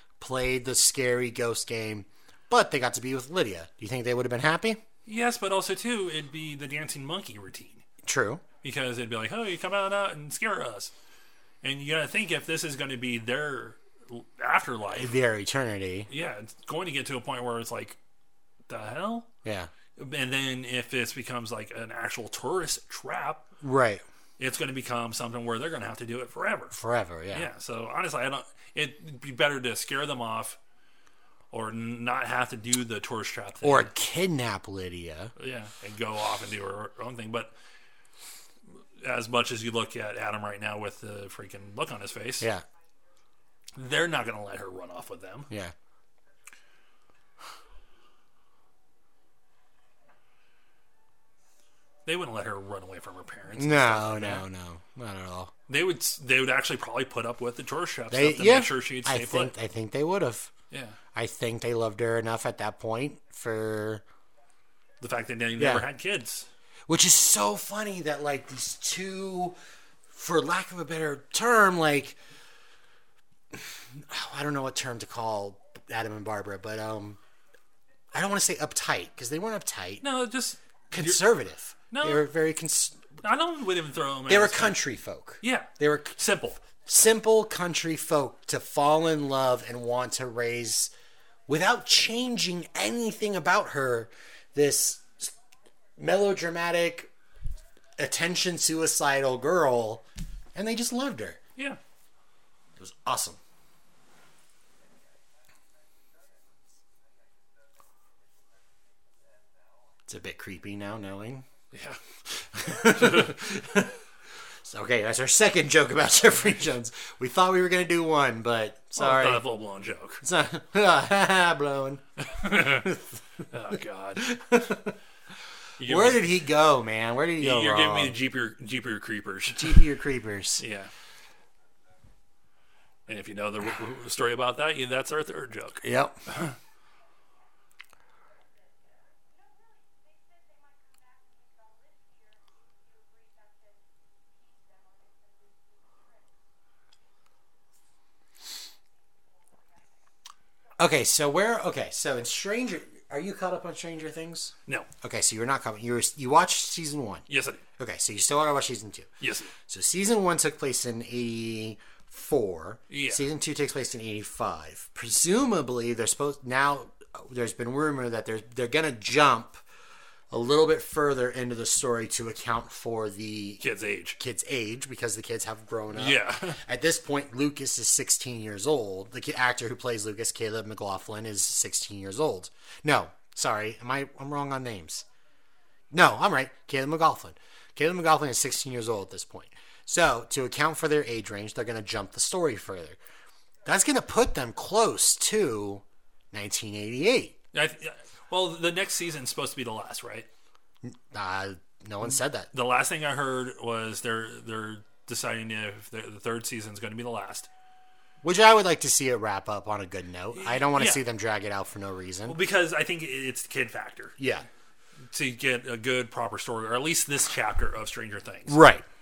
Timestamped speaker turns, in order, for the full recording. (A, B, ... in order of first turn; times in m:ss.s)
0:00.2-0:04.8 A
0:05.0-0:07.8 B
0:08.0-0:08.4 A
0:08.6-0:10.9 B
0:11.6-0:15.1 B
0:14.9-0:16.1 A
0:16.1-0:18.0 B
0:18.7-0:19.3 B
0:19.4-0:19.7 A
0:20.0-0:23.5 B
0:23.6-0:24.0 A
0:24.4-0:26.8 B
0:26.7-0:27.5 A
0:27.3-0:30.6 B
0:31.5-0:33.9 B
0:33.6-0:35.3 A
0:35.4-0:37.5 B
0:39.0-0:42.5 B
0:43.8-0:45.5 B
0:52.0-0:54.4 B
0:53.5-0:55.5 A
0:55.7-0:59.5 B
0:58.1-1:00.5 A
1:00.7-1:01.0 B
1:01.1-1:04.0 A
1:05.0-1:06.5 B
1:05.6-1:05.9 A
1:06.9-1:09.6 A
1:10.1-1:12.2 A
1:13.5-1:17.2 A
1:18.1-1:20.0 A
1:20.0-1:21.2 B
1:20.9-1:23.1 A
1:21.9-1:22.2 B
1:23.2-1:24.8 B
1:24.3-1:30.9 A
1:25.4-1:26.6 B
1:31.5-1:35.3 A
1:36.0-1:37.1 A
1:38.0-1:41.4 A
1:42.8-1:43.4 A
1:50.1-1:51.4 A
1:51.7-1:52.0 B
1:52.4-1:54.0 A
1:52.7-1:53.3 B
1:54.6-1:59.4 A
1:59.0-2:00.2 B
2:00.2-2:03.2 A
2:02.2-2:02.9 B
2:03.5-2:04.3 B
2:04.2-2:04.9 A
2:05.8-2:06.2 B
2:05.8-2:08.2 A
2:07.4-2:09.8 B
2:09.5-2:10.6 A
2:10.6-2:10.9 B
2:13.1-2:16.5 B
2:15.8-2:16.2 A
2:30.8-2:37.2 A
2:37.3-2:37.6 B
2:37.8-2:49.6 A
2:39.2-2:39.5 B
2:42.9-2:43.2 B
2:50.3-2:53.6 A
2:53.6-2:54.2 B
2:54.2-3:05.0 A
2:55.9-2:56.6 B
3:05.9-3:13.0 A
3:13.6-3:17.4 A
3:17.5-3:20.3 B
3:20.8-3:22.5 A
3:22.5-3:27.5 B
3:28.2-3:32.4 A
3:30.3-3:31.0 B
3:32.2-3:34.2 B
3:34.2-3:34.4 A
3:35.1-3:38.6 B
3:38.5-3:38.8 A